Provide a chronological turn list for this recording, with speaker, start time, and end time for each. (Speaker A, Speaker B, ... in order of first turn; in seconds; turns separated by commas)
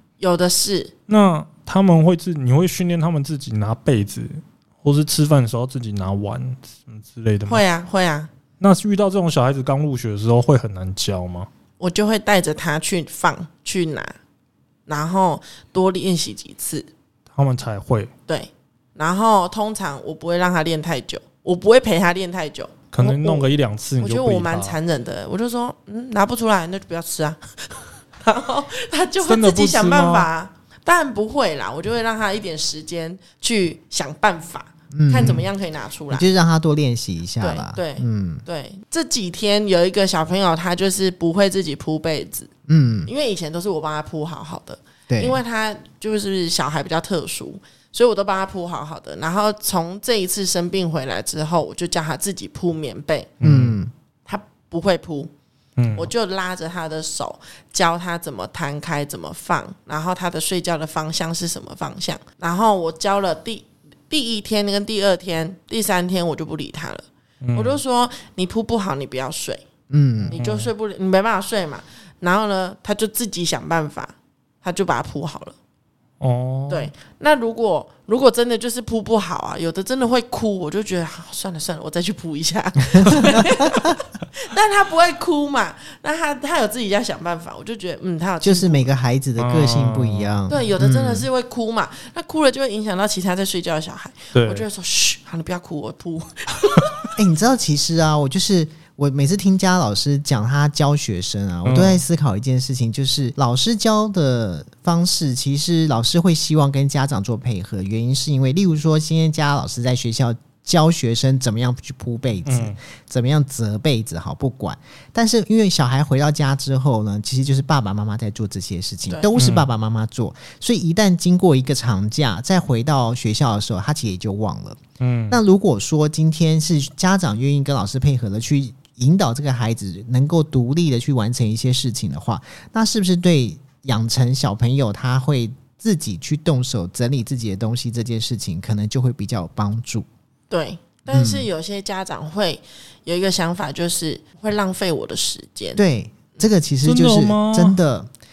Speaker A: 0.2-0.9, Speaker B: 1.1-7.6, Speaker A: 7.5-8.3, Speaker B: 8.6-11.5, Speaker A: 11.8-14.2, Speaker A: 14.9-16.9, Speaker B: 17.3-18.1, Speaker A: 18.3-23.5, Speaker B: 22.9-24.8, Speaker A: 24.0-36.3, Speaker B: 29.2-30.3, Speaker C: 34.9-35.5, Speaker C: 36.1-38.4, Speaker A: 37.4-42.5, Speaker C: 42.7-43.1, Speaker A: 43.1-53.3, Speaker C: 45.1-45.4, Speaker B: 53.4-53.8, Speaker C: 53.4-53.9, Speaker A: 54.3-55.3, Speaker B: 55.8-56.1, Speaker A: 56.0-69.6, Speaker B: 67.4-67.8, Speaker C: 69.9-70.4, Speaker B: 70.3-70.7, Speaker A: 70.3-75.5, Speaker B: 76.2-76.9, Speaker A: 76.7-88.9, Speaker C: 83.0-83.5, Speaker C: 88.4-91.3, Speaker B: 89.4-90.4, Speaker A: 90.5-96.9, Speaker B: 94.3-94.7, Speaker C: 97.2-140.1, Speaker B: 101.7-102.0, Speaker B: 112.5-112.8, Speaker B: 119.4-119.7, Speaker B: 125.0-125.4, Speaker A: 140.5-145.8, Speaker C: 141.1-141.5, Speaker C: 145.8-148.1, Speaker B: 146.8-147.8